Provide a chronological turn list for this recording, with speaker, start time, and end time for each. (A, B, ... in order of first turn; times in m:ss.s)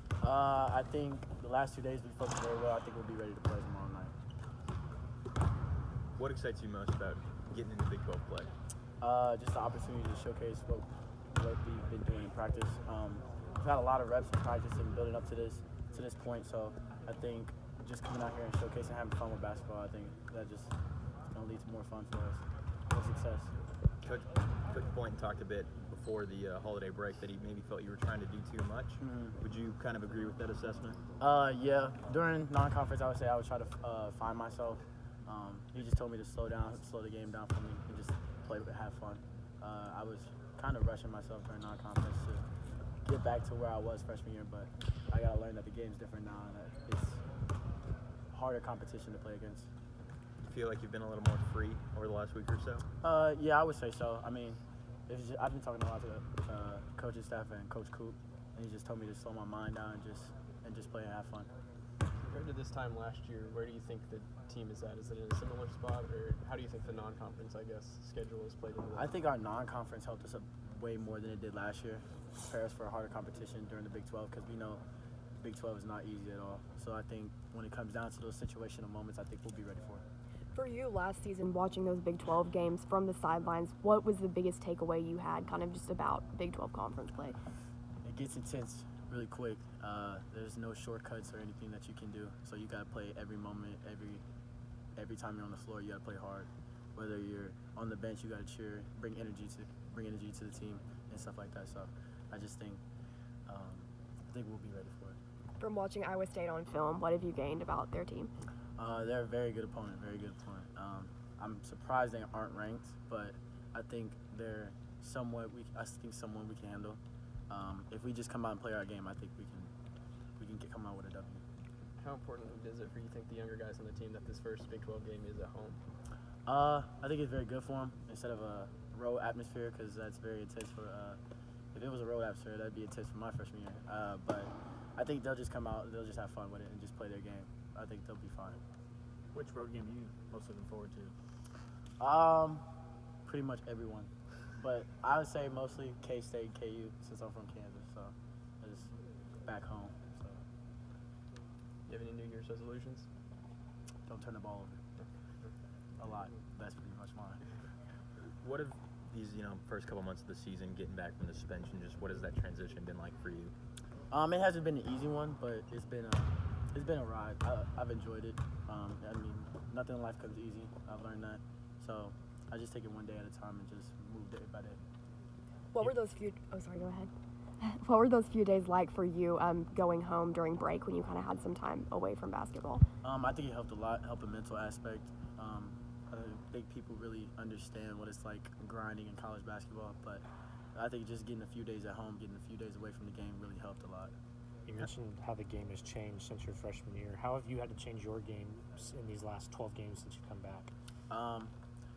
0:00.2-0:04.1 A
0:06.2-0:08.5 B
0:09.0-0:20.7 A
0:21.3-0:23.5 A
0:24.0-0:31.0 B
0:29.0-0:29.4 A
0:31.2-0:42.5 A
0:43.0-0:47.2 A
0:48.3-0:49.7 A
0:50.4-0:52.9 B
0:53.0-1:01.5 A
1:02.2-1:09.2 C
1:09.0-1:14.8 A
1:15.4-1:20.0 A
1:20.5-1:27.4 D
1:28.0-1:34.2 A
1:35.0-1:42.8 A
1:43.5-1:45.2 A
1:45.6-1:48.3 D
1:48.8-1:59.7 A
2:00.4-2:01.4 A
2:02.0-2:05.8 C
2:06.5-2:11.2 A
2:11.7-2:18.6 A
2:19.3-2:21.1 E
2:22.0-2:22.7 A
2:23.3-2:28.9 A
2:29.4-2:30.4 A
2:31.9-2:33.1 C
2:34.1-2:34.8 A
2:35.0-2:35.5 C
2:36.0-2:37.4 A
2:38.4-2:43.6 B
2:44.1-2:54.8 A
2:55.7-3:02.8 D
3:03.0-3:14.1 A
3:14.7-3:20.7 E
3:21.1-3:21.5 A